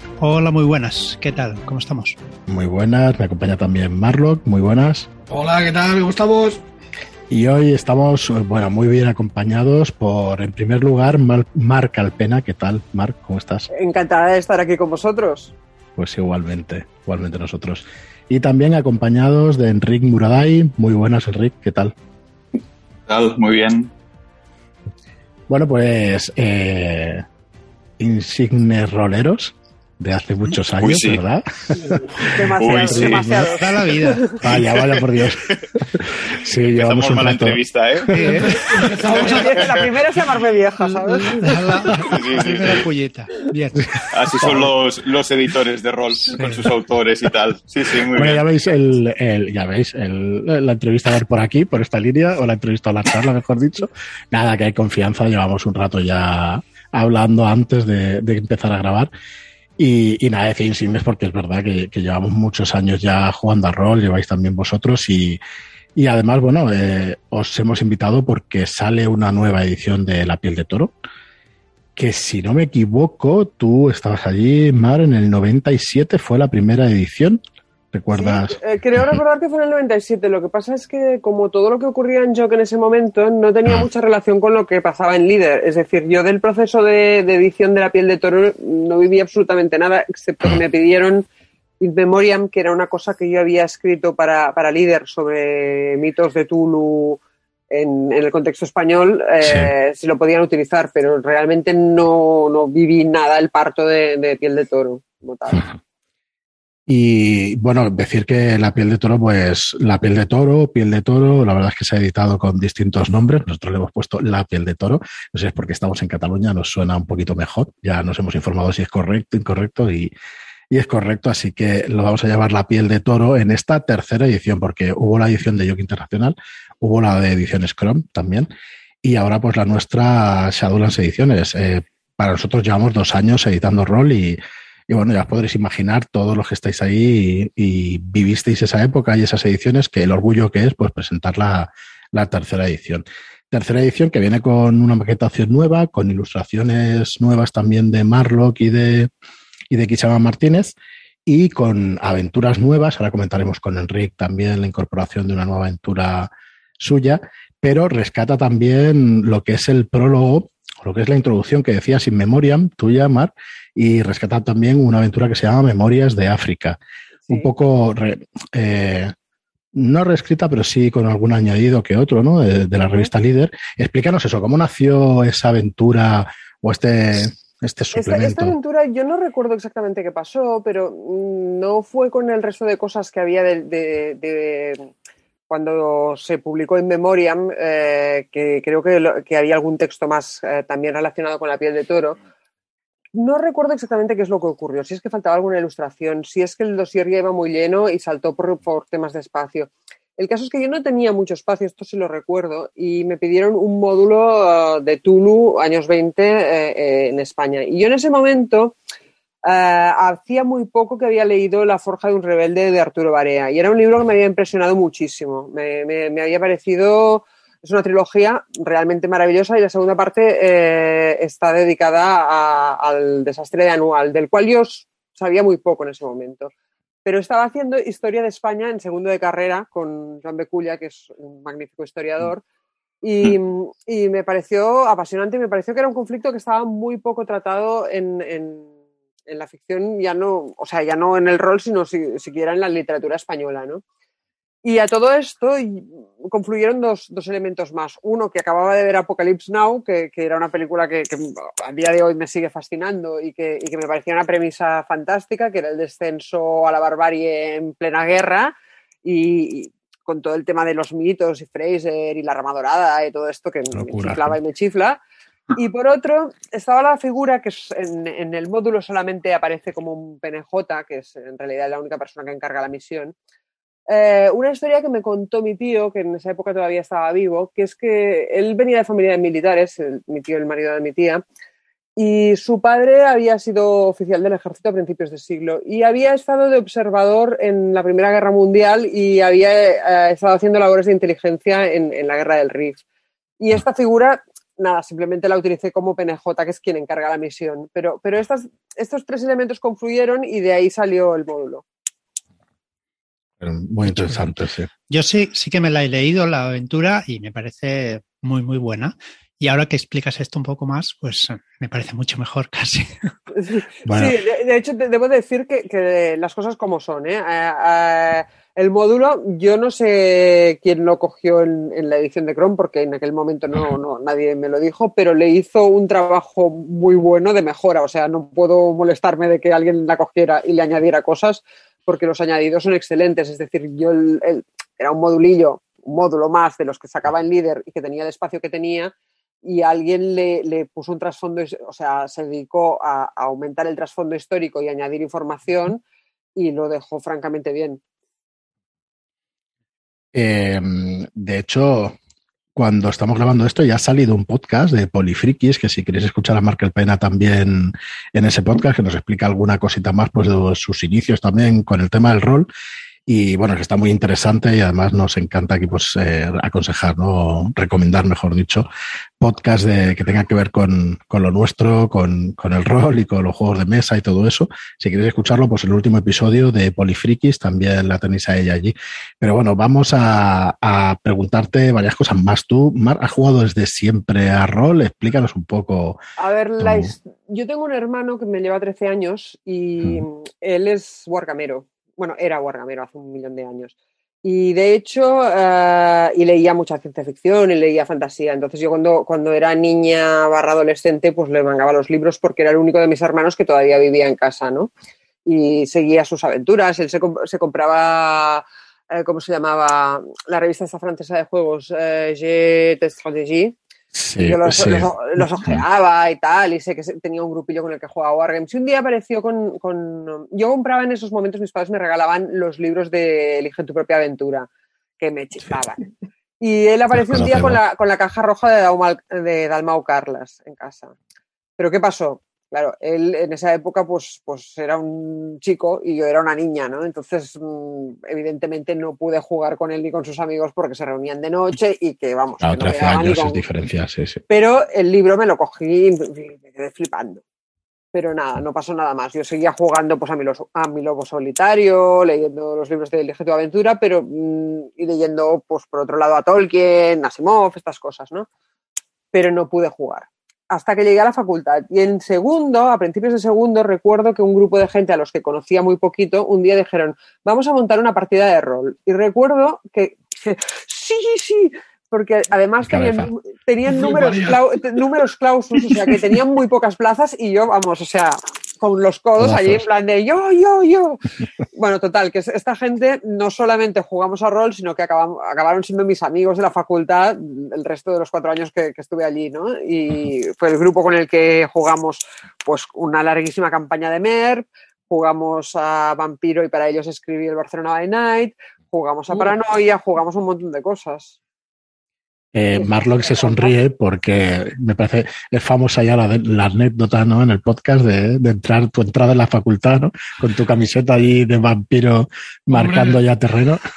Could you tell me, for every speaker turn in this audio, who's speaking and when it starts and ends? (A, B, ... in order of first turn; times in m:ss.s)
0:00.2-0:02.2 A
0:02.5-0:05.1 B
0:05.3-0:06.6 C
0:07.3-0:13.7 B
0:13.7-0:15.5 D
0:16.0-0:21.9 B
0:23.1-0:23.9 E
0:25.5-0:27.2 B
0:28.0-0:32.4 B
0:30.8-0:31.2 E
0:32.2-0:34.4 D
0:32.6-0:33.5 E
0:32.9-0:34.4 A
0:34.4-0:38.8 B
0:34.6-0:35.6 E
0:36.7-0:38.2 E
0:38.1-0:38.8 A
0:38.7-0:39.7 C
0:39.0-0:41.9 D
0:39.2-0:39.8 E
0:41.0-0:44.5 A
0:42.0-0:42.9 E
0:44.1-0:48.4 E
0:46.2-0:46.7 A
0:48.1-0:59.1 B
0:59.8-1:05.4 B
1:06.0-1:11.0 B
1:12.0-1:18.6 B
1:18.1-1:31.3 D
1:31.8-1:45.7 D
1:39.4-1:39.7 B
1:46.9-2:00.1 B
2:00.7-2:08.5 B
2:09.0-2:29.1 B
2:29.7-2:30.8 B
2:31.3-2:49.1 B
2:49.7-2:58.5 B
2:57.9-3:04.9 D
3:05.5-3:12.2 D
3:13.1-3:28.8 D
3:29.4-3:46.5 D
3:47.0-3:52.4 D
3:53.0-3:58.7 D
3:59.3-4:03.8 D
4:04.6-4:25.0 D
4:23.7-4:24.4 B
4:25.6-4:33.1 D
4:33.9-4:41.2 D
4:42.0-4:52.8 D
4:53.4-5:01.6 D
5:03.4-5:04.7 B
5:04.9-5:12.9 A
5:13.4-5:38.9 D
5:13.9-5:14.2 B
5:39.4-5:45.8 D
5:46.4-5:47.8 D
5:50.1-5:52.0 B
5:52.6-6:02.5 B
6:03.1-6:08.7 B
6:09.2-6:26.0 B
6:26.2-6:33.7 D
6:26.6-6:26.9 B
6:34.2-6:44.7 D
6:45.3-6:53.6 D
6:54.0-6:55.6 B
6:54.2-7:04.5 D
7:05.0-7:05.8 D
7:06.4-7:10.9 D
7:07.0-7:07.6 B
7:11.6-7:23.4 D
7:22.4-7:24.2 B
7:24.3-7:27.2 D
7:27.9-7:38.3 D
7:39.1-8:01.0 D
7:52.7-7:53.1 B
7:53.7-7:54.4 C
7:59.2-7:59.6 B
8:01.5-8:21.2 D
8:22.3-8:33.6 B
8:22.6-8:23.6 D
8:32.5-8:33.0 C